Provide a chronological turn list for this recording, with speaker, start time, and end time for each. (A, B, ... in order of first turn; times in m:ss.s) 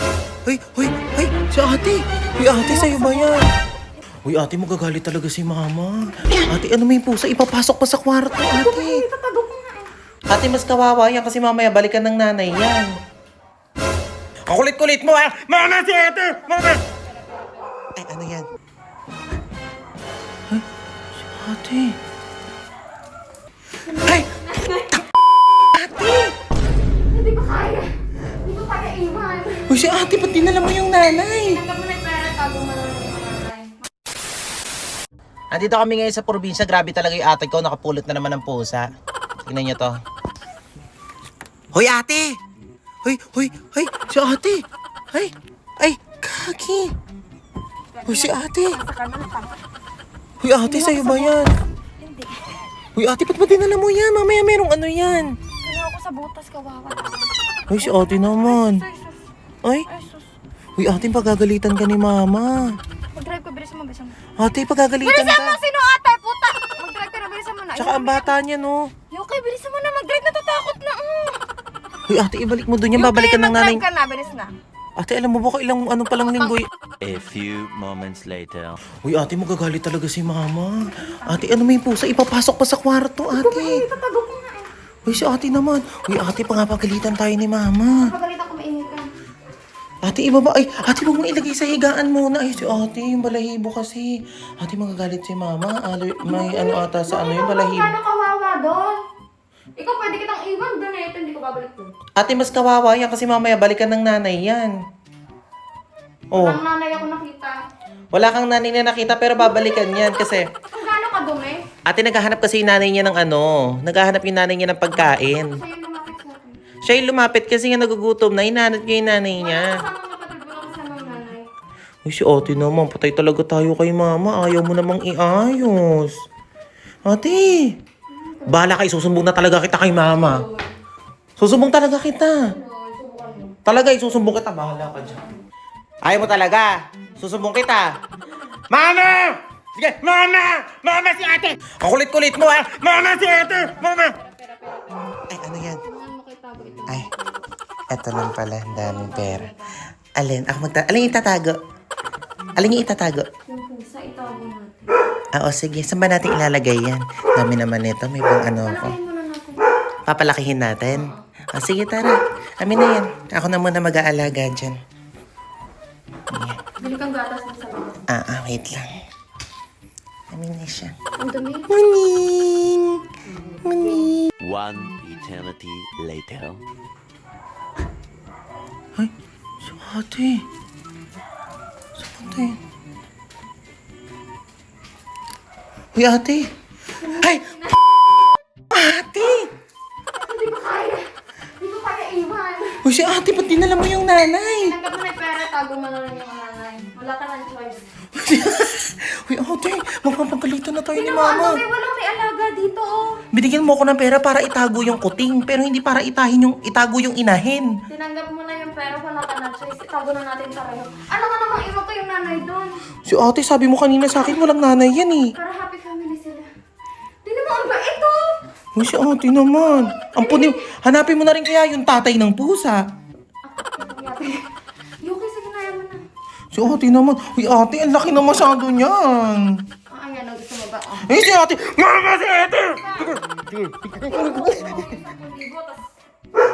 0:00.4-0:03.4 A
0:02.5-0:03.4 B
0:04.2-0:09.0 A
0:08.5-0:09.9 B
0:10.3-0:12.9 A
0:14.5-0:16.8 A
0:18.0-0:18.5 A
0:21.3-0:22.0 A
0:23.8-0:24.9 B
0:25.7-0:26.3 A
0:27.1-0:27.9 B
0:28.4-0:29.7 B
0:29.7-0:31.6 A
0:31.5-0:33.9 B
0:35.5-0:38.9 A
0:39.5-0:39.9 A
0:41.7-0:42.4 A
0:43.0-0:46.9 A
0:47.9-0:49.6 B
0:48.1-0:48.8 A
0:50.4-0:51.5 A
0:50.6-0:52.7 B
0:53.0-0:55.3 A
0:55.6-0:59.2 B
0:57.7-0:58.8 A
0:59.9-1:00.3 B
1:00.8-1:02.6 A
1:03.1-1:04.2 B
1:04.4-1:05.6 A
1:05.0-1:08.3 B
1:07.8-1:08.9 A
1:09.1-1:11.4 B
1:12.1-1:13.8 A
1:13.0-1:14.5 B
1:15.0-1:16.7 A
1:17.0-1:18.8 C
1:19.0-1:23.8 A
1:21.0-1:21.4 B
1:23.3-1:24.7 B
1:25.1-1:28.1 A
1:27.9-1:29.1 B
1:30.0-1:38.0 A
1:36.2-1:39.0 B
1:39.8-1:41.9 B
1:42.2-1:44.7 A
1:46.3-1:46.6 A
1:46.3-1:47.6 B
1:48.1-1:50.4 A
1:49.4-1:51.6 B
1:51.9-1:55.6 A
1:55.4-1:56.6 B
1:56.8-1:59.8 A
1:59.3-2:01.5 B
2:02.1-2:06.1 A
2:07.1-2:07.7 A
2:08.1-2:08.8 B
2:08.5-2:10.4 A
2:10.2-2:10.7 B
2:11.4-2:12.4 A
2:12.4-2:13.6 B
2:13.7-2:15.2 A
2:16.0-2:17.9 A
2:18.7-2:24.2 A
2:24.1-2:25.0 B
2:25.3-2:25.8 A
2:25.8-2:27.4 B
2:27.9-2:29.5 A
2:28.7-2:29.8 B
2:30.2-2:31.6 A
2:32.6-2:33.3 A
2:33.5-2:34.9 B
2:35.3-2:38.9 A
2:38.6-2:39.6 B
2:40.1-2:44.7 A
2:40.9-2:41.2 B
2:46.3-2:46.6 A
2:46.8-2:48.0 B
2:48.1-2:48.9 A
2:50.3-2:50.9 A
2:51.2-2:51.7 B
2:51.7-2:53.0 A
2:53.6-2:54.3 A
2:54.4-2:56.6 C
2:59.6-3:00.4 A
3:02.0-3:02.6 A
3:05.9-3:06.5 A
3:07.0-3:07.8 B
3:07.1-3:07.4 A
3:08.7-3:09.5 A
3:10.1-3:11.0 B
3:11.6-3:12.8 B
3:12.8-3:14.7 A
3:14.6-3:17.9 B
3:18.1-3:21.6 A
3:20.9-3:23.2 B
3:23.3-3:27.7 A
3:27.9-3:32.8 B
3:33.0-3:35.3 A
3:35.3-3:36.5 B
3:37.2-3:38.3 B
3:38.8-3:42.8 A
3:39.6-3:40.7 B
3:43.4-3:44.4 B
3:45.0-3:46.0 B
3:46.5-3:49.6 A
3:49.9-3:51.1 B
3:51.0-3:54.8 A
3:52.7-3:53.2 B
3:54.0-3:55.8 B